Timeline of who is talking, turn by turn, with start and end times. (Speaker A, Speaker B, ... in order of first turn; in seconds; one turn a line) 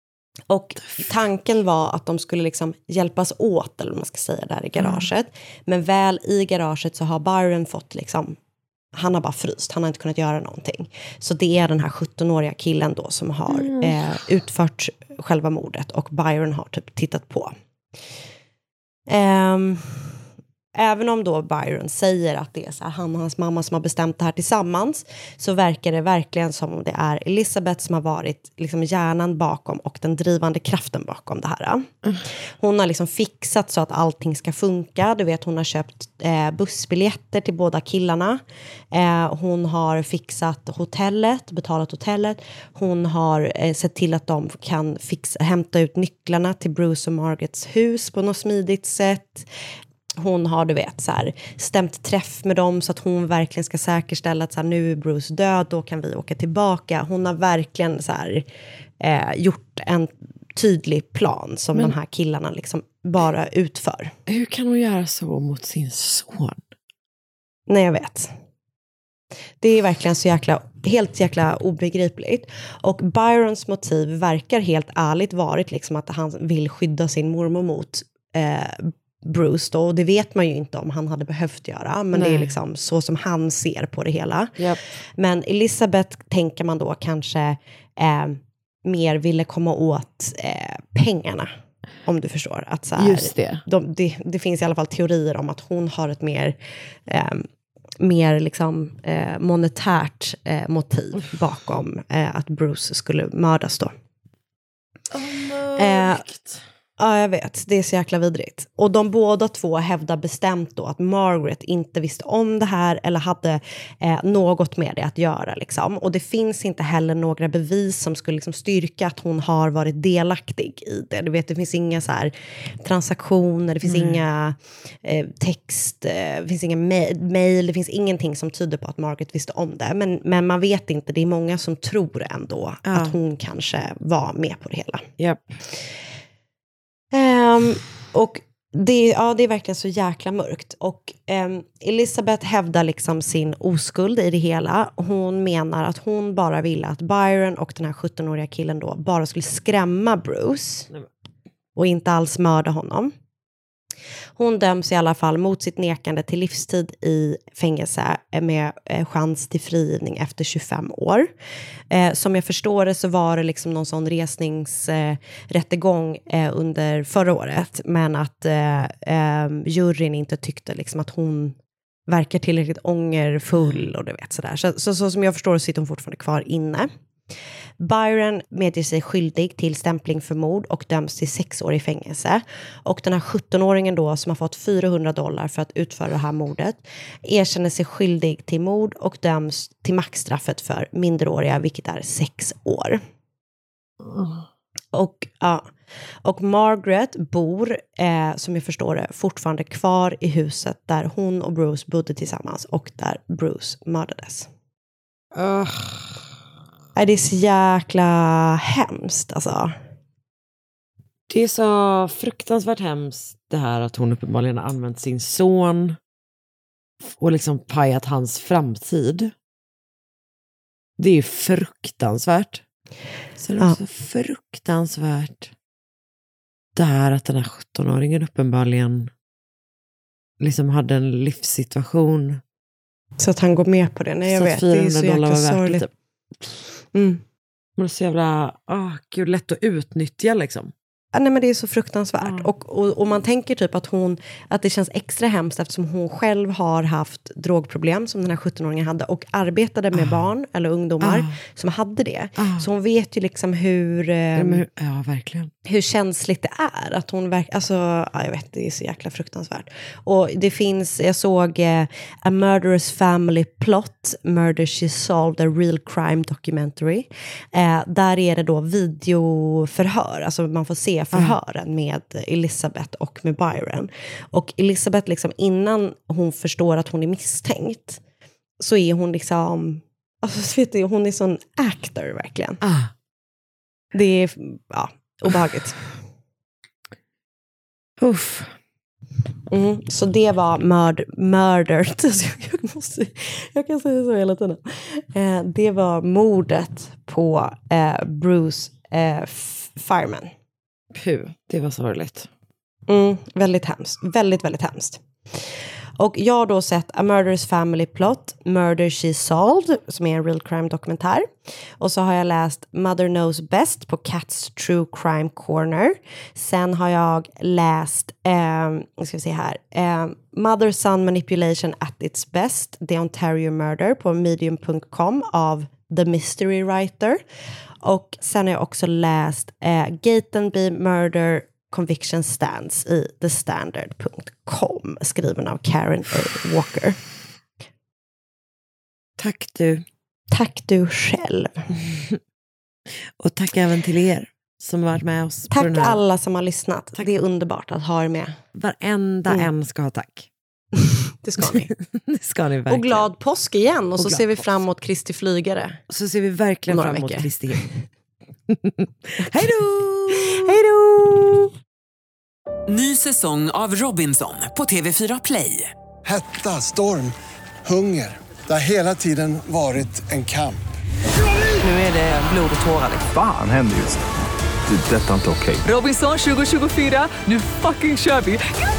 Speaker A: 0.5-8.4
Speaker B: 4.8-5.1
Speaker A: 8.9-17.5
Speaker B: 13.5-14.0
Speaker A: 19.1-20.1
Speaker A: 20.7-31.9
Speaker A: 32.6-38.4
Speaker A: 38.9-49.5
Speaker A: 50.2-58.4
Speaker A: 59.0-64.1
Speaker B: 64.3-66.6
Speaker A: 67.7-68.3
Speaker A: 69.6-84.6
Speaker B: 82.1-82.5
Speaker A: 85.2-91.5
Speaker A: 92.0-96.5
Speaker B: 93.0-93.6
Speaker A: 97.1-97.4
Speaker A: 98.0-103.9
Speaker B: 105.1-106.6
Speaker A: 105.8-106.2
Speaker A: 107.0-135.1
Speaker B: 123.8-124.2
Speaker B: 132.9-133.2
Speaker B: 135.2-135.5
Speaker A: 137.1-150.9
Speaker A: 151.8-153.1
Speaker A: 154.4-161.3
Speaker A: 161.9-171.6
Speaker A: 172.1-176.9
Speaker A: 177.8-193.0
Speaker A: 194.9-195.6
Speaker A: 196.2-204.5
Speaker B: 205.3-206.2
Speaker A: 206.9-209.8
Speaker B: 211.3-216.0
Speaker B: 217.1-219.3
Speaker B: 221.0-222.6
Speaker B: 223.4-225.5
Speaker B: 226.8-229.1
Speaker B: 230.4-232.4
Speaker A: 233.2-235.9
Speaker B: 234.3-235.9
Speaker A: 236.9-237.2
Speaker B: 237.8-240.7
Speaker A: 241.1-254.6
Speaker B: 242.2-242.5
Speaker B: 249.9-250.2
Speaker B: 251.0-251.4
Speaker B: 252.4-252.7
Speaker B: 254.3-255.5
Speaker A: 255.7-278.0
Speaker A: 278.6-282.6
Speaker B: 282.6-282.9
Speaker A: 283.9-285.9
Speaker B: 288.0-288.5
Speaker A: 289.5-300.3
Speaker B: 300.9-302.3
Speaker A: 302.9-305.0
Speaker A: 306.0-311.3
Speaker A: 311.8-327.2
Speaker A: 327.8-337.0
Speaker B: 339.2-339.8
Speaker A: 340.3-341.7
Speaker B: 341.8-342.2
Speaker B: 343.2-346.0
Speaker A: 345.5-348.4
Speaker B: 348.6-350.3
Speaker A: 350.7-351.7
Speaker B: 351.4-353.1
Speaker A: 352.7-355.8
Speaker B: 354.0-354.5
Speaker B: 355.9-357.6
Speaker A: 356.7-357.6
Speaker B: 358.5-360.6
Speaker A: 360.1-361.5
Speaker C: 362.7-365.7
Speaker D: 366.1-370.6
Speaker C: 371.6-373.1
Speaker E: 373.1-374.1
Speaker E: 374.7-375.6
Speaker C: 375.6-378.4